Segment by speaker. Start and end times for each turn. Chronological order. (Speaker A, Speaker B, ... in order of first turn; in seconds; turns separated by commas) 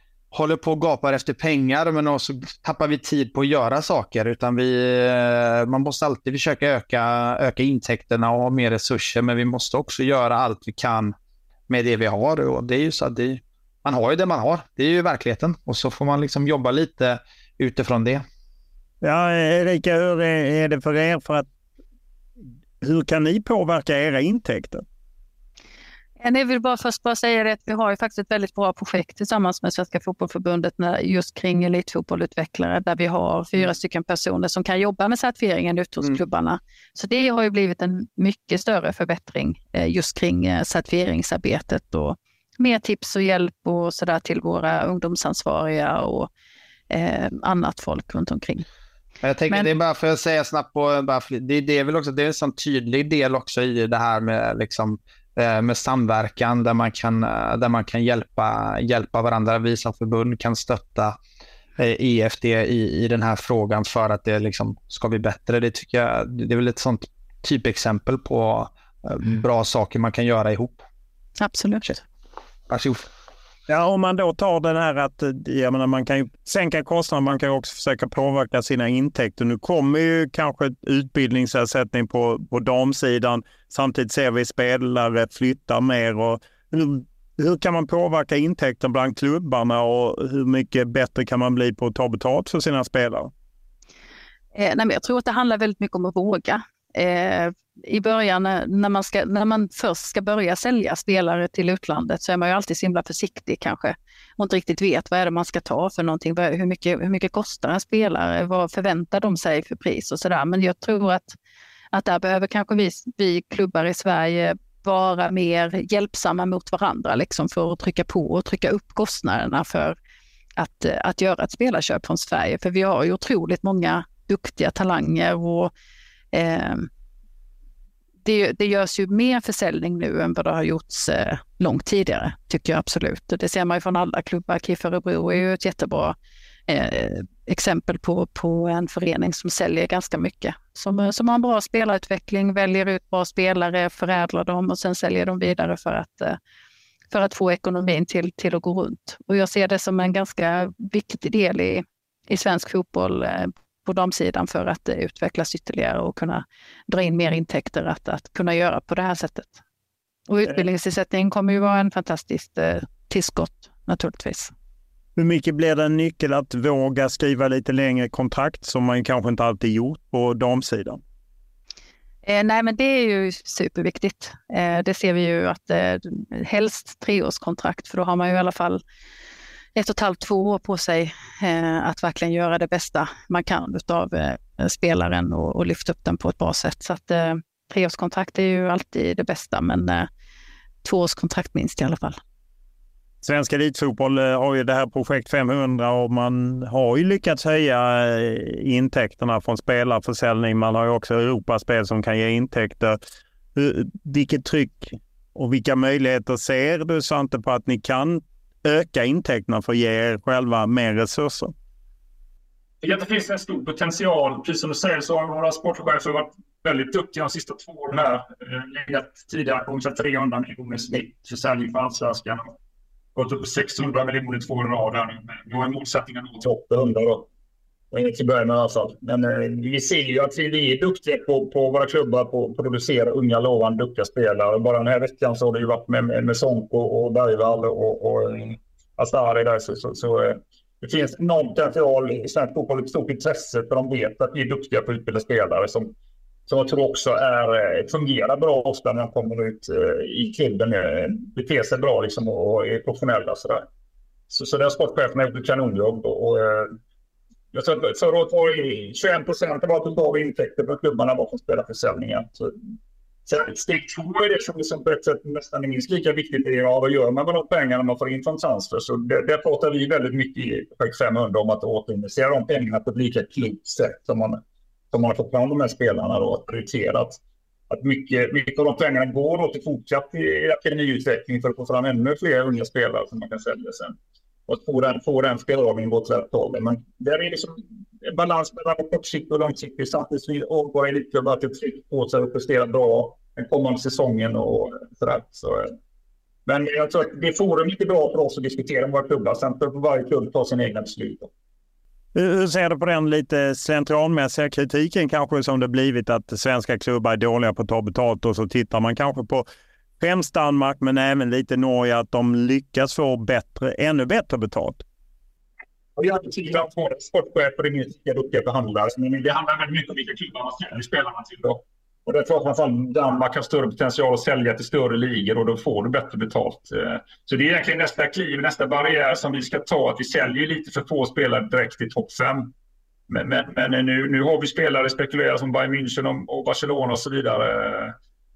Speaker A: 0.3-11.1, Speaker A: 11.7-18.2, Speaker B: 19.0-21.5, Speaker B: 22.8-24.8, Speaker C: 26.2-46.3, Speaker C: 46.9-48.6, Speaker A: 49.2-61.2, Speaker A: 61.8-70.8, Speaker C: 71.4-72.0, Speaker A: 72.7-73.1, Speaker B: 73.7-93.3, Speaker C: 94.5-111.3, Speaker C: 111.9-120.0, Speaker C: 120.6-125.7, Speaker C: 126.3-126.9, Speaker C: 128.2-136.1, Speaker C: 136.7-146.4, Speaker C: 147.1-159.6, Speaker C: 160.3-164.5, Speaker B: 165.2-171.0, Speaker C: 172.2-178.8, Speaker C: 179.8-190.1, Speaker C: 190.8-192.2, Speaker B: 193.2-203.0, Speaker B: 203.6-211.5, Speaker D: 212.8-222.5, Speaker D: 223.1-227.3, Speaker D: 227.9-245.9, Speaker D: 246.5-253.7, Speaker D: 254.3-256.8, Speaker D: 257.5-262.5, Speaker D: 263.2-283.9, Speaker D: 284.5-295.7, Speaker D: 296.4-301.3, Speaker B: 302.1-309.4, Speaker B: 310.0-314.8, Speaker D: 315.9-332.5, Speaker D: 333.1-337.9